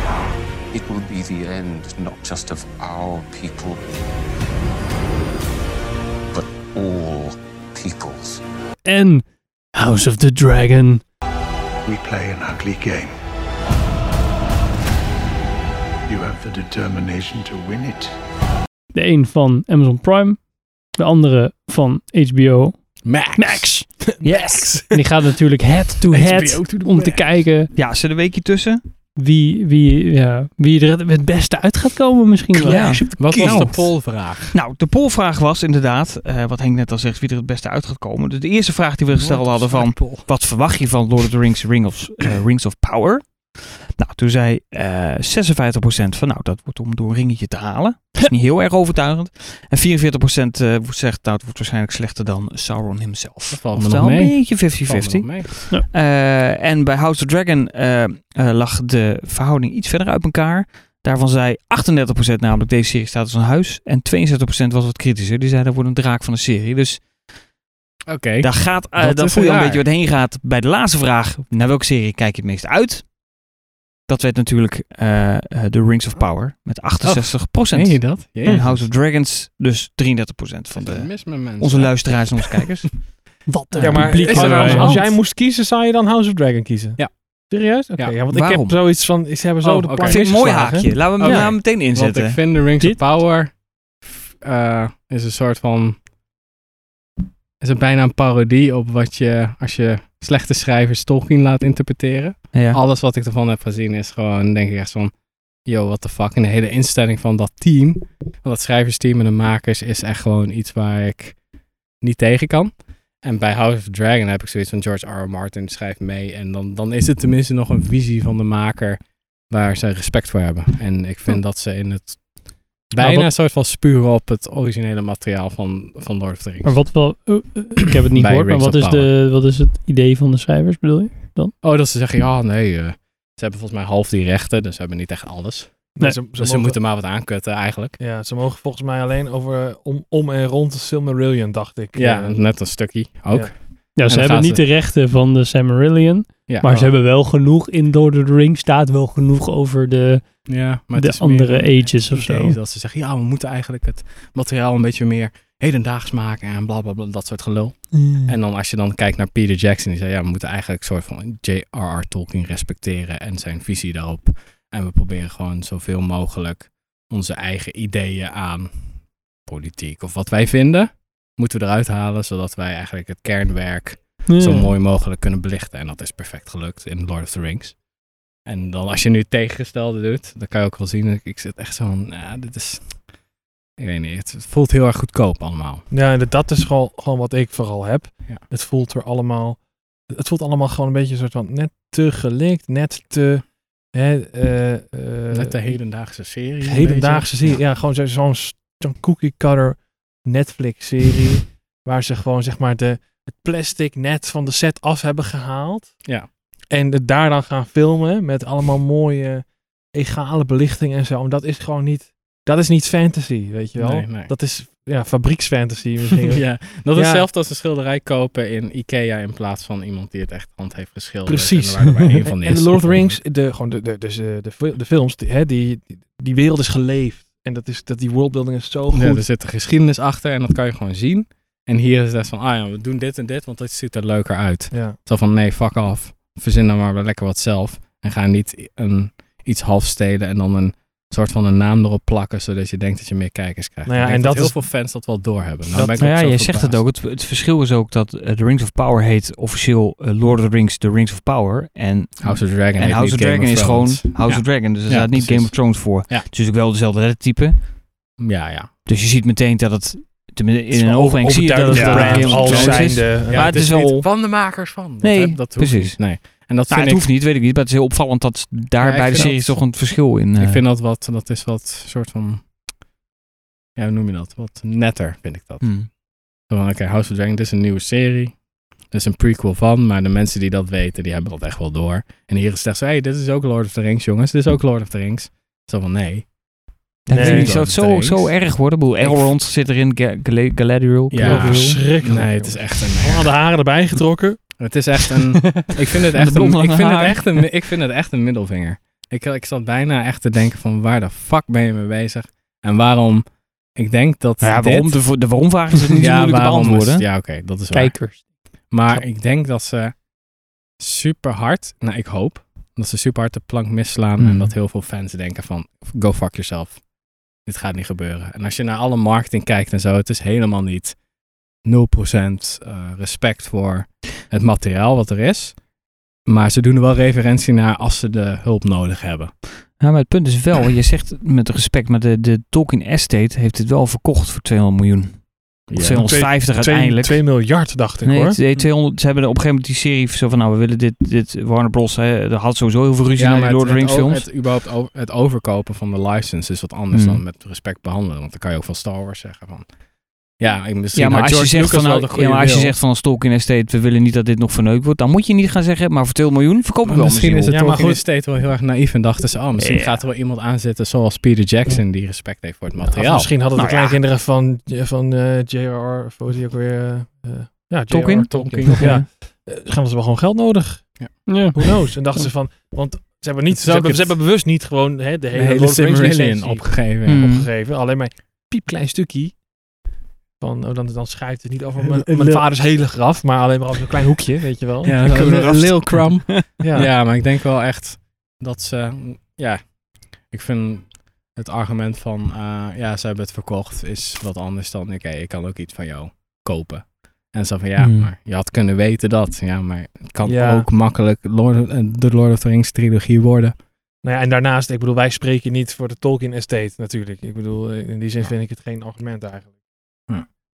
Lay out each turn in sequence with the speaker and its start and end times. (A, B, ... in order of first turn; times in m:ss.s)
0:00.7-0:04.0 A
0:06.3-0:08.4 A
0:08.8-0:11.0 B
0:11.8-0:13.2 C
0:16.1-0:18.2 C
0:18.9-0:27.7 B
0:23.0-0:24.0 D
0:24.2-0:24.8 E
0:24.2-0:24.8 F
0:26.1-0:27.4 D
0:27.7-0:28.8 F
0:29.2-0:33.9 B
0:32.6-1:07.5 F
0:33.2-0:34.6 D
0:39.3-0:40.1 D
0:53.5-0:55.5 D
1:08.1-1:09.8 D
1:08.4-1:23.1 F
1:17.0-1:18.9 D
1:20.7-1:22.6 D
1:23.4-1:25.0 B
1:23.8-1:31.1 E
1:23.9-1:25.2 D
1:27.0-1:28.2 D
1:28.3-1:28.9 F
1:29.6-1:36.0 D
1:30.0-1:32.6 F
1:31.2-1:31.6 B
1:37.6-1:51.4 D
1:42.5-1:42.8 F
1:52.0-2:07.3 D
2:03.0-2:03.3 B
2:06.6-2:11.5 B
2:08.1-2:09.1 D
2:11.6-2:18.0 D
2:16.0-2:16.8 E
2:18.0-2:23.5 E
2:21.9-2:24.6 D
2:23.9-2:32.6 B
2:26.6-2:26.9 E
2:30.4-3:05.8 D
2:37.9-2:38.3 B
2:54.2-2:54.7 B
3:05.9-3:37.3 E
3:15.3-3:17.6 D
3:26.0-3:26.3 D
3:33.8-3:34.3 D
3:36.2-3:43.2 D
3:41.2-3:49.3 E
3:48.9-4:06.8 D
3:54.7-3:55.0 E
4:03.8-4:05.2 E
4:05.7-4:06.0 E
4:06.0-4:17.6 F
4:12.2-4:16.3 D
4:18.2-4:18.7 D
4:18.8-4:30.6 F
4:20.7-4:23.6 E
4:21.7-4:22.8 B
4:22.0-4:27.1 D
4:28.8-4:32.5 D
4:29.2-4:29.4 E
4:33.8-4:49.3 D
4:35.6-4:35.9 F
4:47.1-4:51.8 F
4:47.1-4:47.6 E
4:51.1-4:53.3 D
4:51.2-4:55.1 E
4:54.6-5:05.4 D
4:56.2-4:57.6 F
5:04.4-5:07.2 F
5:06.0-5:21.0 D
5:07.7-5:08.2 B
5:14.2-5:14.5 F
5:21.5-5:25.7 D
5:26.2-5:29.4 D
5:29.8-5:44.3 F
5:35.7-5:36.3 D
5:35.9-5:38.4 E
5:43.2-5:52.8 D
5:46.9-5:47.2 F
5:50.9-5:57.6 F
5:56.8-6:03.3 D
5:57.5-5:58.0 E
5:59.6-6:00.0 F
6:02.8-6:19.4 E
6:03.5-6:04.0 F
6:07.9-6:09.0 F
6:08.3-6:09.0 D
6:11.3-6:12.3 B
6:13.5-6:14.2 D
6:15.3-6:17.3 D
6:17.0-6:17.5 F
6:20.4-6:25.0 E
6:21.8-6:22.7 D
6:24.8-6:43.6 D
6:25.0-6:26.4 F
6:26.6-6:26.9 E
6:37.8-6:38.1 F
6:40.2-6:40.7 E
6:44.0-6:49.6 E